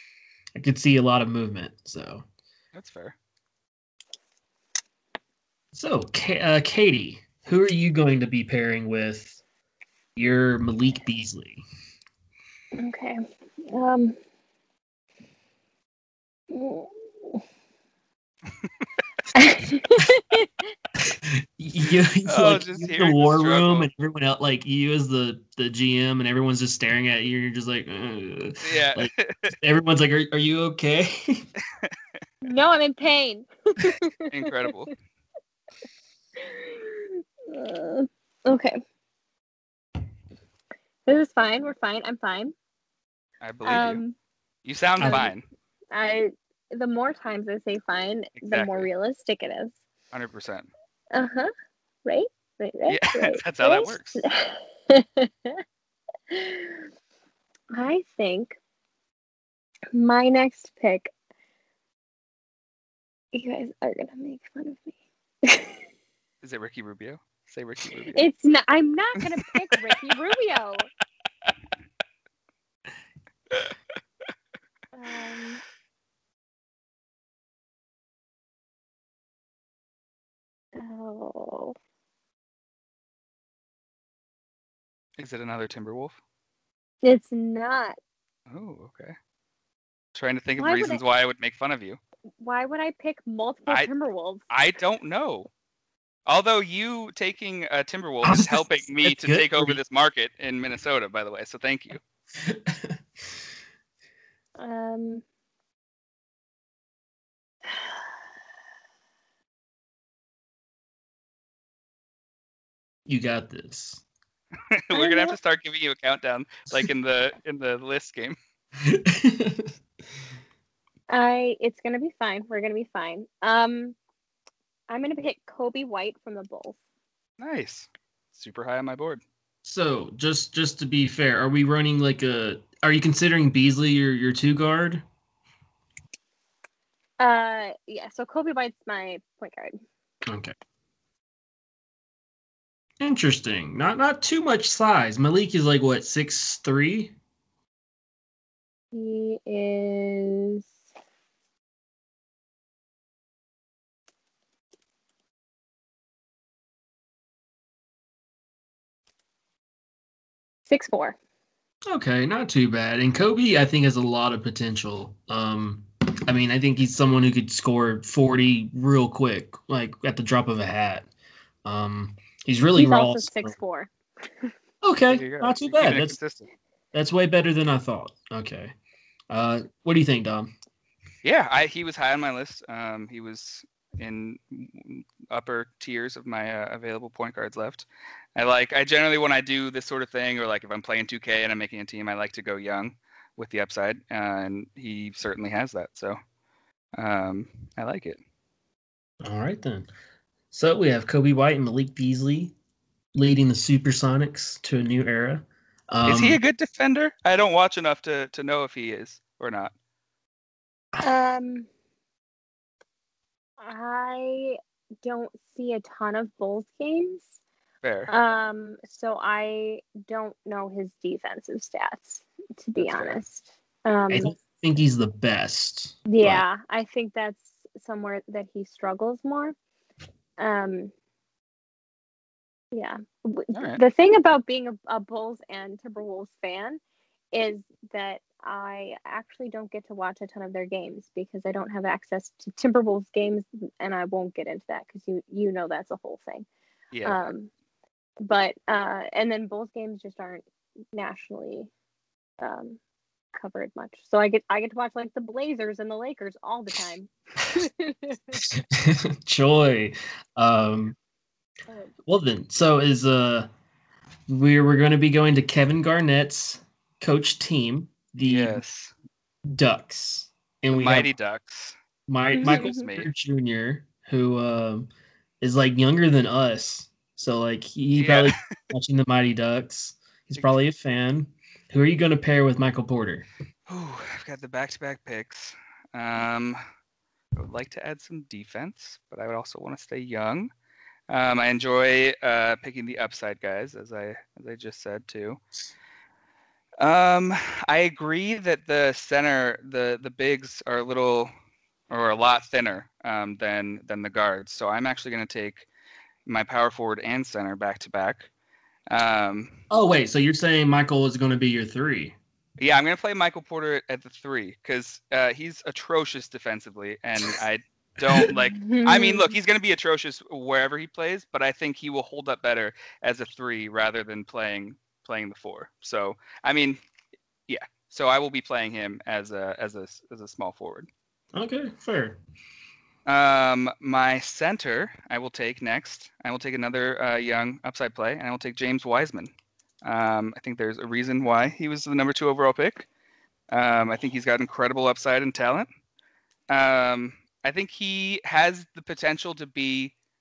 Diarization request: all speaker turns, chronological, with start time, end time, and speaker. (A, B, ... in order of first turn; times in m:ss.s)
0:00.6-0:02.2 A
0:02.7-0:03.2 B
0:05.7-0:09.4 A
0:10.2-0:11.6 A
0:12.8-0:14.2 C
0:16.5-0:17.4 C
0:19.4-0:20.5 C
0:21.0-0:31.5 A
0:22.3-0:23.9 B
0:28.6-0:29.5 B
0:32.4-0:34.2 C
0:34.3-0:34.9 B
0:36.4-0:38.8 C
0:41.1-0:42.6 C
0:43.4-0:44.0 B
0:43.6-0:44.2 C
0:44.6-0:45.4 B
0:45.0-0:45.3 A
0:45.9-0:49.8 C
0:48.4-0:48.9 B
0:50.1-0:50.7 B
0:51.1-0:51.5 C
0:52.0-0:55.6 C
0:52.9-0:54.2 B
0:56.3-0:56.8 C
0:57.7-0:58.6 C
0:59.9-1:01.1 C
1:03.3-1:04.9 C
1:05.4-1:05.7 C
1:06.4-1:08.2 B
1:08.2-1:10.9 C
1:15.0-1:15.6 C
1:20.8-1:21.8 C
1:25.2-1:26.2 B
1:27.0-1:28.0 C
1:28.5-1:29.2 B
1:30.2-1:32.0 B
1:30.6-1:31.0 C
1:32.4-1:34.4 C
1:34.5-1:35.5 B
1:36.3-1:42.0 B
1:38.2-1:39.8 A
1:42.4-1:43.0 A
1:44.6-1:45.2 C
1:53.1-1:54.0 A
1:54.8-1:58.4 B
1:54.9-1:55.4 C
1:58.8-1:59.7 A
2:01.1-2:04.0 C
2:04.9-2:06.8 C
2:07.4-2:09.2 B
2:09.6-2:15.0 A
2:17.2-2:19.8 C
2:20.3-2:20.5 A
2:23.0-2:27.1 A
2:28.9-2:30.7 C
2:40.7-2:41.2 C
2:41.9-2:51.1 A
2:51.6-2:53.6 A
2:52.8-2:53.9 C
2:54.8-2:56.2 A
2:55.1-2:56.5 B
2:56.9-2:58.8 A
2:59.3-3:00.5 A
3:01.2-3:16.2 B
3:17.0-3:18.2 B
3:19.2-3:19.9 A
3:20.5-3:22.5 A
3:23.1-3:26.4 A
3:26.1-3:29.7 B
3:31.0-3:31.7 C
3:33.6-3:37.3 C
3:37.8-3:38.1 B
3:38.1-3:44.3 C
3:42.8-3:43.2 B
3:44.1-3:46.4 A
3:46.1-3:49.6 C
3:50.4-3:50.9 C
3:52.7-3:56.8 C
3:53.5-3:53.8 B
3:57.3-4:06.5 C
4:06.9-4:07.2 B
4:07.0-4:07.5 C
4:08.2-4:11.7 C
4:12.4-4:12.8 C
4:13.4-4:18.4 C
4:18.5-4:21.0 A
4:22.0-4:23.5 A
4:24.3-4:28.6 A
4:28.2-4:28.9 B
4:29.5-4:31.1 A
4:30.7-4:31.8 B
4:32.1-4:34.9 A
4:32.4-4:32.8 C
4:32.4-4:33.1 B
4:35.4-4:43.3 A
4:38.0-4:38.4 B
4:43.7-4:46.6 B
4:47.4-4:50.5 B
4:51.1-4:55.4 B
4:56.8-5:01.3 B
5:01.9-5:05.7 B
5:06.3-5:08.3 B
5:08.9-5:09.6 B
5:09.7-5:12.2 A
5:12.6-5:26.8 B
5:18.6-5:19.3 C
5:27.5-5:30.9 B
5:31.3-5:32.2 A
5:33.1-5:39.3 B
5:39.8-5:42.9 B
5:43.5-5:45.7 B
5:46.5-5:49.9 B